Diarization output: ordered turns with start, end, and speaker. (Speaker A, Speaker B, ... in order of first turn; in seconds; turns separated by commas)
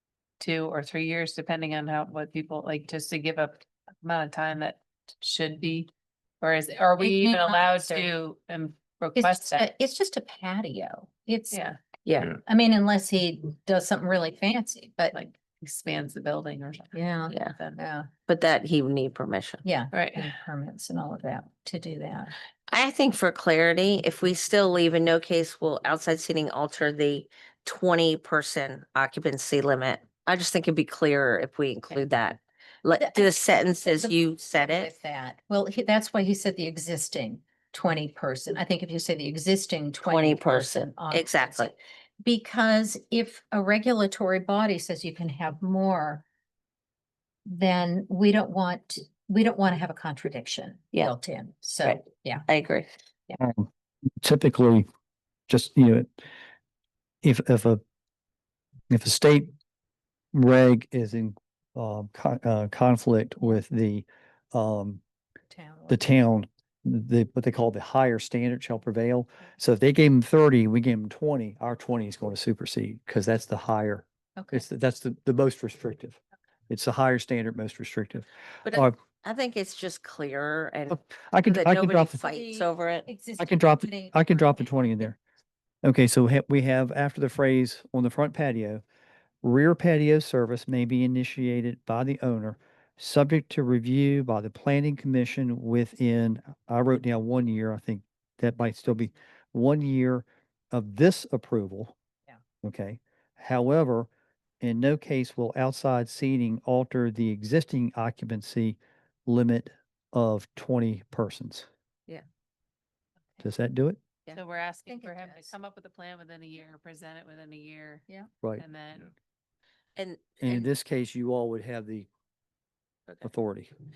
Speaker A: 0.4-9.7, Speaker B: 7.0-8.1, Speaker B: 9.1-11.6, Speaker A: 11.5-11.8, Speaker C: 12.1-12.3, Speaker B: 12.4-15.2, Speaker A: 15.1-17.8, Speaker B: 16.9-18.1, Speaker C: 18.3-19.6, Speaker B: 19.6-22.3, Speaker A: 19.9-20.3, Speaker C: 22.7-34.9, Speaker B: 33.0-46.2, Speaker C: 40.0-41.7, Speaker B: 47.5-52.5, Speaker C: 51.8-52.9, Speaker D: 53.4-53.7, Speaker D: 54.2-54.9, Speaker D: 55.5-56.2, Speaker D: 57.2-57.8, Speaker D: 58.9-59.5, Speaker D: 60.3-65.0, Speaker B: 65.5-66.0, Speaker D: 65.9-78.9, Speaker B: 74.4-74.7, Speaker C: 78.7-83.1, Speaker D: 80.9-82.2, Speaker B: 82.2-84.7, Speaker D: 83.4-85.2, Speaker D: 85.8-88.8, Speaker D: 89.4-102.0, Speaker D: 102.6-104.1, Speaker D: 104.6-111.7, Speaker D: 113.4-114.0, Speaker A: 114.3-118.0, Speaker B: 114.9-115.5, Speaker A: 118.6-119.1, Speaker C: 120.0-120.7, Speaker D: 120.4-122.1, Speaker D: 123.2-123.7